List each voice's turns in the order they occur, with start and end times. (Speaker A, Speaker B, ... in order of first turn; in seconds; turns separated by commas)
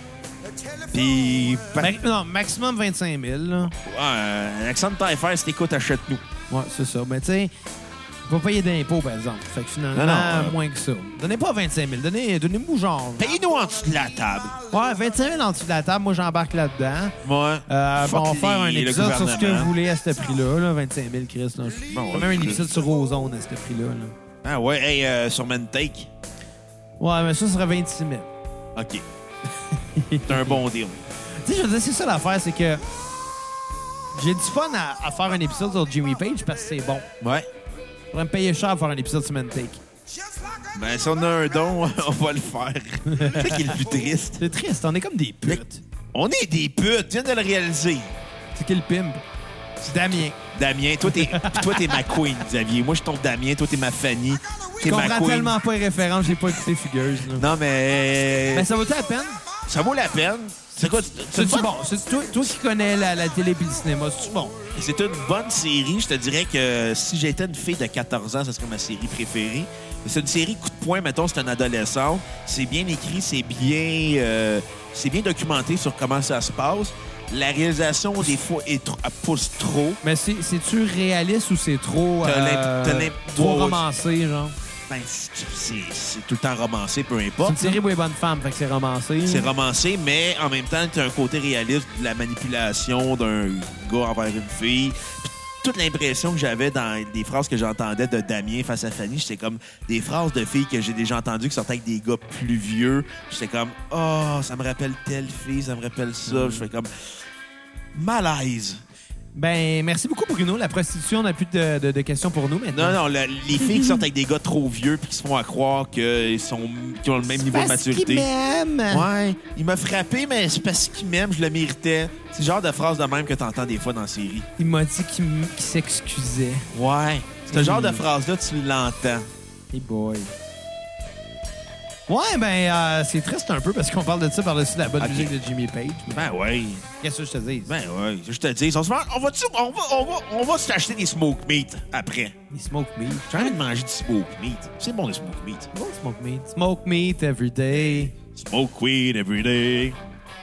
Speaker A: 0.9-1.9, Speaker B: 1.8-3.7, Speaker A: 3.8-6.2, Speaker B: 6.5-7.5, Speaker B: 8.3-13.3, Speaker A: 9.9-10.6, Speaker A: 13.2-14.6, Speaker B: 14.7-17.1, Speaker A: 17.2-19.7, Speaker B: 17.7-24.1, Speaker A: 21.9-22.8, Speaker A: 24.4-26.1, Speaker B: 27.0-28.3, Speaker A: 28.8-29.1, Speaker B: 29.7-30.6, Speaker A: 30.2-31.0, Speaker B: 31.4-32.8, Speaker B: 34.1-37.1, Speaker A: 37.2-37.5, Speaker B: 38.1-39.8, Speaker A: 40.7-44.4, Speaker B: 43.1-43.7, Speaker B: 44.4-45.8, Speaker A: 46.1-48.1, Speaker B: 48.5-49.2, Speaker B: 49.8-50.4, Speaker A: 50.5-55.6, Speaker B: 51.0-52.1, Speaker B: 54.8-57.5, Speaker A: 57.4-58.7, Speaker B: 58.5-59.4, Speaker A: 59.7-61.7, Speaker B: 60.8-64.6, Speaker A: 64.8-80.0, Speaker B: 80.0-84.5, Speaker A: 82.2-83.8, Speaker A: 84.9-87.8, Speaker B: 87.4-89.5, Speaker A: 89.2-106.9, Speaker B: 106.3-106.7, Speaker A: 107.9-108.8, Speaker B: 109.3-113.0, Speaker A: 112.7-118.3, Speaker B: 117.3-119.1, Speaker A: 118.9-124.5, Speaker B: 124.6-126.7, Speaker A: 126.7-129.3, Speaker B: 127.5-128.0, Speaker B: 129.7-130.3, Speaker B: 132.1-136.3, Speaker A: 135.0-135.3, Speaker A: 136.1-136.9, Speaker B: 137.0-137.7, Speaker A: 137.7-142.4, Speaker B: 142.5-143.3, Speaker A: 143.3-145.7, Speaker B: 145.7-148.1, Speaker A: 148.3-150.0